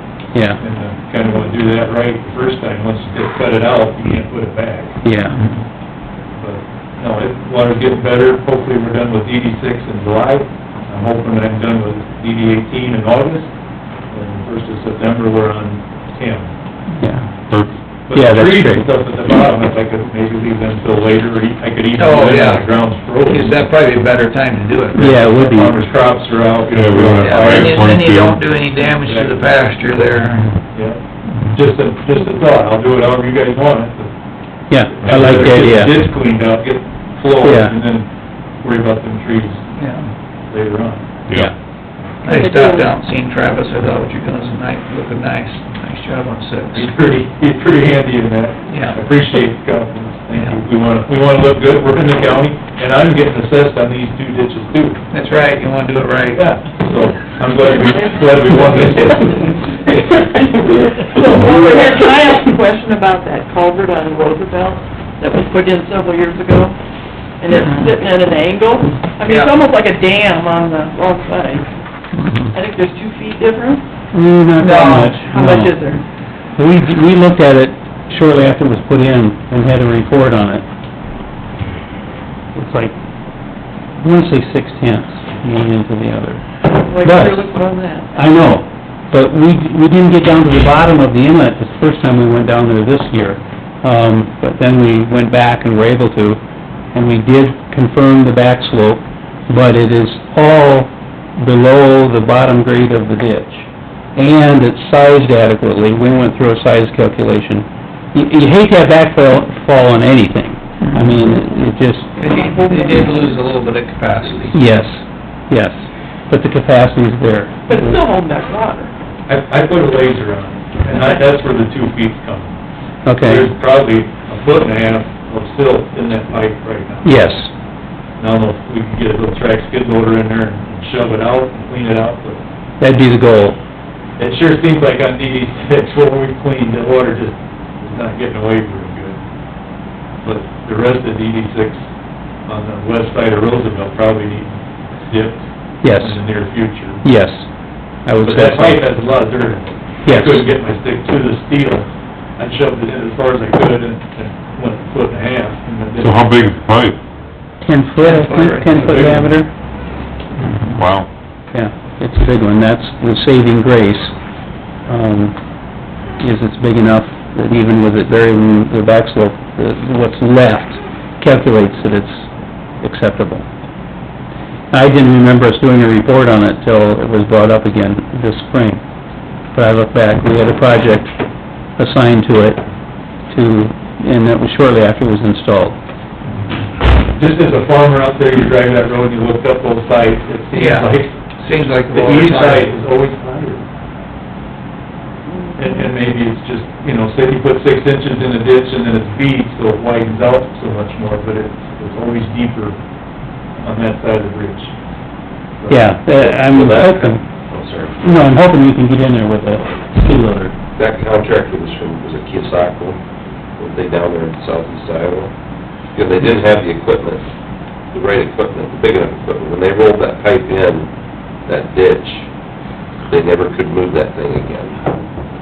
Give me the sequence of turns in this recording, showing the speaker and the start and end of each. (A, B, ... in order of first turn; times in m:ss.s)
0:00.3-0:00.6 A
0:00.6-0:05.0 B
0:05.0-0:05.4 A
0:05.3-0:05.6 C
0:06.4-0:13.5 B
0:14.1-0:16.5 B
0:17.0-0:17.3 A
0:18.1-0:23.6 B
0:18.1-0:18.8 A
0:22.0-0:22.6 C
0:23.3-0:25.0 C
0:24.9-0:28.0 B
0:25.0-0:25.8 A
0:26.7-0:28.4 D
0:27.2-0:30.6 C
0:28.6-0:29.5 B
0:30.7-0:34.1 B
0:34.7-0:36.0 A
0:34.9-0:38.1 B
0:37.4-0:37.8 A
0:38.6-0:39.6 B
0:39.8-0:40.1 C
0:40.5-0:41.1 B
0:41.3-0:41.5 D
0:42.2-0:46.9 C
0:42.2-0:42.9 E
0:46.7-0:55.0 B
0:48.7-0:49.0 C
0:55.1-0:56.4 C
0:56.3-1:00.2 B
0:57.8-0:59.4 E
1:00.2-1:06.8 E
1:07.4-1:11.6 E
1:07.5-1:07.9 C
1:09.2-1:09.6 C
1:12.2-1:12.5 C
1:12.5-1:13.8 E
1:14.1-1:15.6 A
1:14.6-1:15.3 C
1:15.2-1:16.0 E
1:16.6-1:20.6 A
1:22.5-1:22.9 A
1:24.0-1:27.2 A
1:26.6-1:28.3 E
1:28.2-1:36.4 A
1:36.9-1:52.1 A
1:50.8-1:51.3 C
1:52.2-1:54.6 C
1:52.4-1:53.1 E
1:54.5-1:57.8 A
1:57.7-1:58.9 E
1:59.3-2:02.5 B
2:03.0-2:03.4 A
2:03.2-2:07.3 B
2:07.0-2:07.5 A
2:08.2-2:12.4 B
2:12.8-2:13.6 A
2:14.2-2:19.2 B
2:20.2-2:21.8 B
2:22.4-2:24.6 B
2:25.1-2:27.0 B
2:25.8-2:26.1 A
2:27.1-2:27.5 A
2:28.0-2:28.8 A
2:28.2-2:31.9 B
2:30.0-2:30.4 A
2:32.4-2:36.5 B
2:36.0-2:37.0 D
2:37.6-2:39.5 A
2:38.0-2:39.3 C
2:38.7-2:39.3 B
2:40.4-2:40.8 C
2:40.7-2:41.1 D
2:41.5-2:44.1 A
2:44.9-2:45.4 A
2:46.2-2:52.2 A
2:52.8-2:53.4 A
2:54.7-2:58.8 A
2:59.5-3:01.1 A
3:01.8-3:02.6 A
3:03.3-3:05.8 A
3:07.1-3:11.2 B
3:10.5-3:12.7 C
3:11.9-3:13.6 B
3:15.3-3:15.9 E
3:15.6-3:22.8 B
3:23.6-3:24.7 B
3:25.6-3:26.4 B
3:25.7-3:27.2 A
3:26.1-3:28.3 F
3:28.0-3:30.5 A
3:30.8-3:33.0 F
3:33.6-3:35.3 F
3:35.9-3:37.2 F
3:37.9-3:40.9 F
3:41.4-3:42.3 F
3:43.1-3:44.8 F